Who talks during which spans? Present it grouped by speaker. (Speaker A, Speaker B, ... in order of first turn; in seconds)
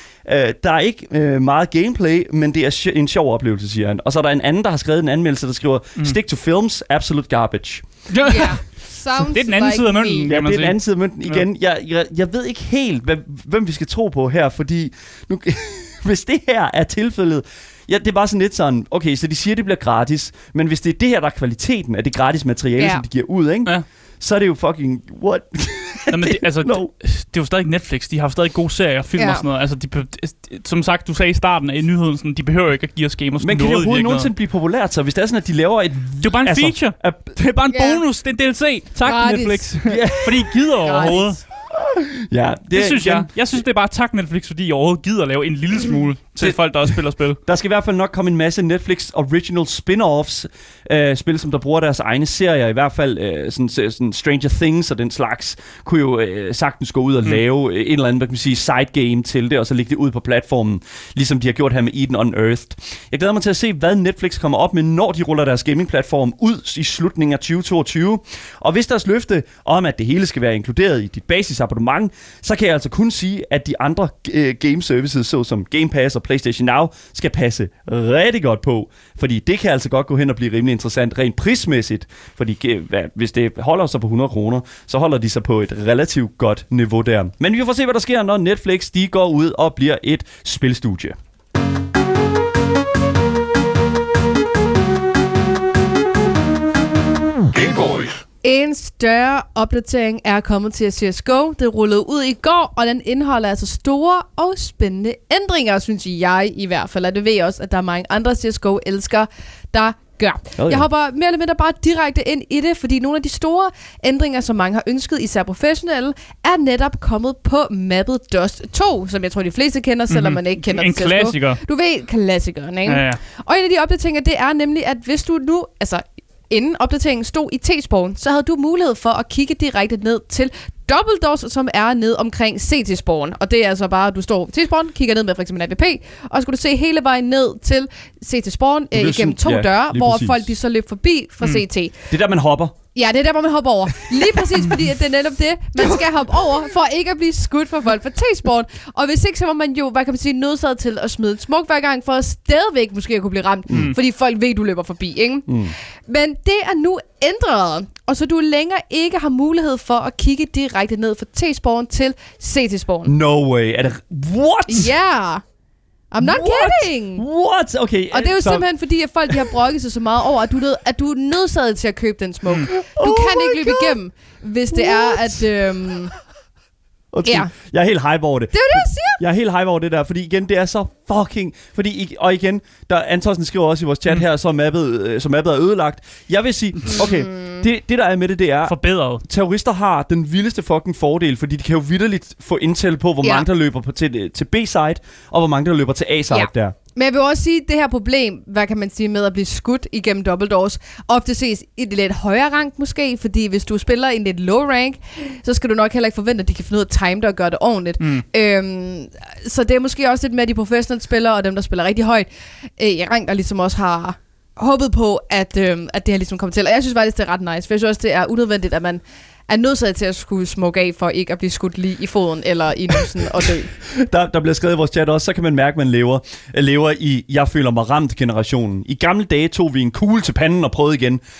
Speaker A: 0.2-7.8, 10.3-26.9, 33.4-37.3, 39.8-40.5, 41.7-43.3, 46.4-91.2, 110.6-110.8, 138.9-140.5, 142.1-142.8, 153.7-153.9, 155.5-155.7, 163.0-164.9, 166.2-168.7, 169.3-169.5, 172.7-174.0, 174.7-175.4, 177.1-196.7, 223.9-231.2
Speaker B: 8.1-8.6, 9.2-11.4, 26.1-34.3, 36.2-41.4, 42.7-47.4, 120.1-121.6, 122.8-123.2, 188.7-189.2, 208.0-208.2
Speaker C: 8.2-10.3, 22.8-23.0, 29.1-29.4, 37.7-38.0, 39.0-39.9, 40.8-41.4, 98.4-141.9, 142.9-163.1, 164.7-165.4, 166.1-167.2, 168.1-176.1, 177.2-177.5, 178.5-179.2, 186.9-187.6, 196.3-223.7